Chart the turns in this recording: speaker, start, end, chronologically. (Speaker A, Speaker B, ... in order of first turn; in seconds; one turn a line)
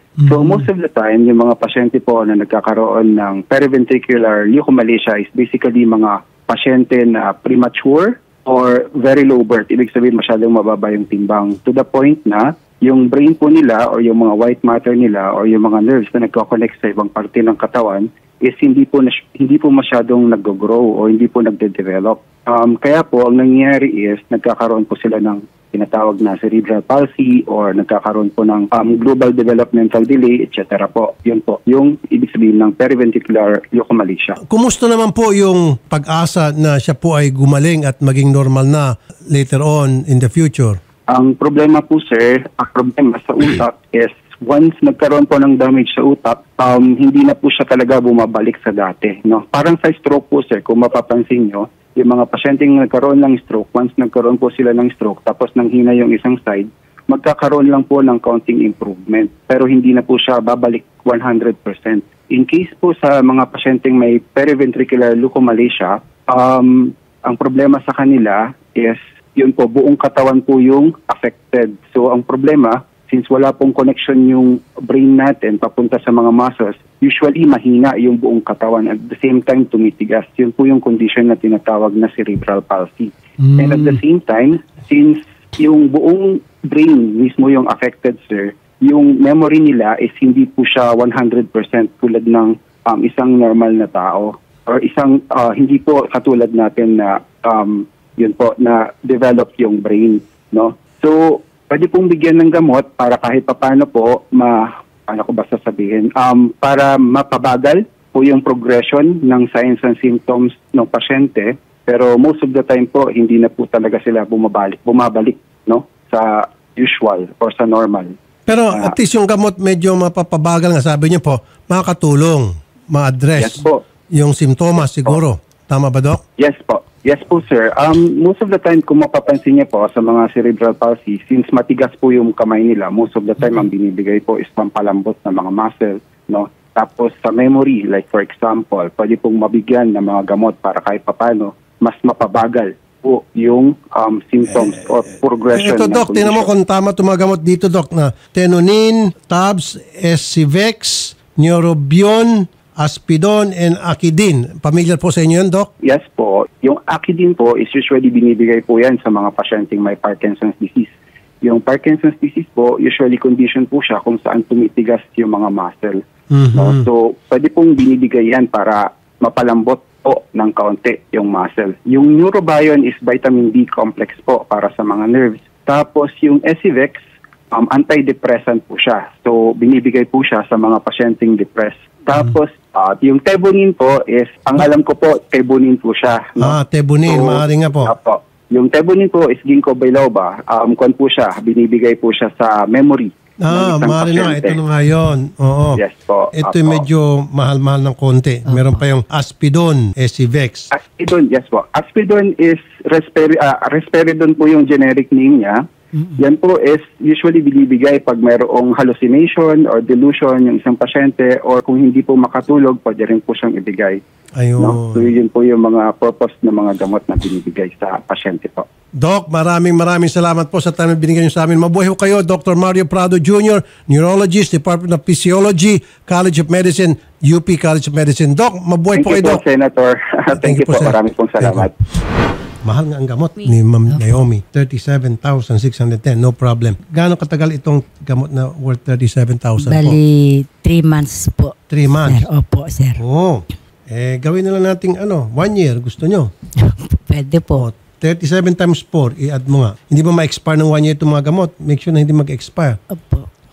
Speaker A: 0.2-0.6
Speaker B: 0.3-34.4
Speaker A: 34.4-40.8
Speaker B: 41.1-118.1
Speaker A: 83.4-84.0
Speaker A: 118.5-126.2
Speaker B: 123.4-123.8
Speaker B: 126.4-146.5
Speaker A: 145.5-155.7
Speaker B: 155.8-166.0
Speaker A: 166.3-166.9
Speaker B: 166.5-177.0
Speaker B: 177.5-194.6
Speaker A: 186.4-187.9
Speaker A: 193.4-195.8
Speaker B: 195.8-196.8
Speaker A: 196.3-200.7
Speaker C: 198.5-198.8
Speaker B: 200.7-205.6
Speaker B: 206.2-214.0
Speaker A: 214.4-215.1
Speaker B: 214.6-218.7
Speaker A: 219.0-229.4
Speaker B: 228.9-231.7
Speaker A: 230.3-231.7
Speaker A: 232.6-240.0
Speaker C: 233.9-234.2
Speaker C: 239.6-243.0
Speaker A: 241.7-242.3
Speaker A: 243.0-246.3
Speaker C: 246.6-247.7
Speaker A: 247.6-252.8
Speaker C: 252.9-253.3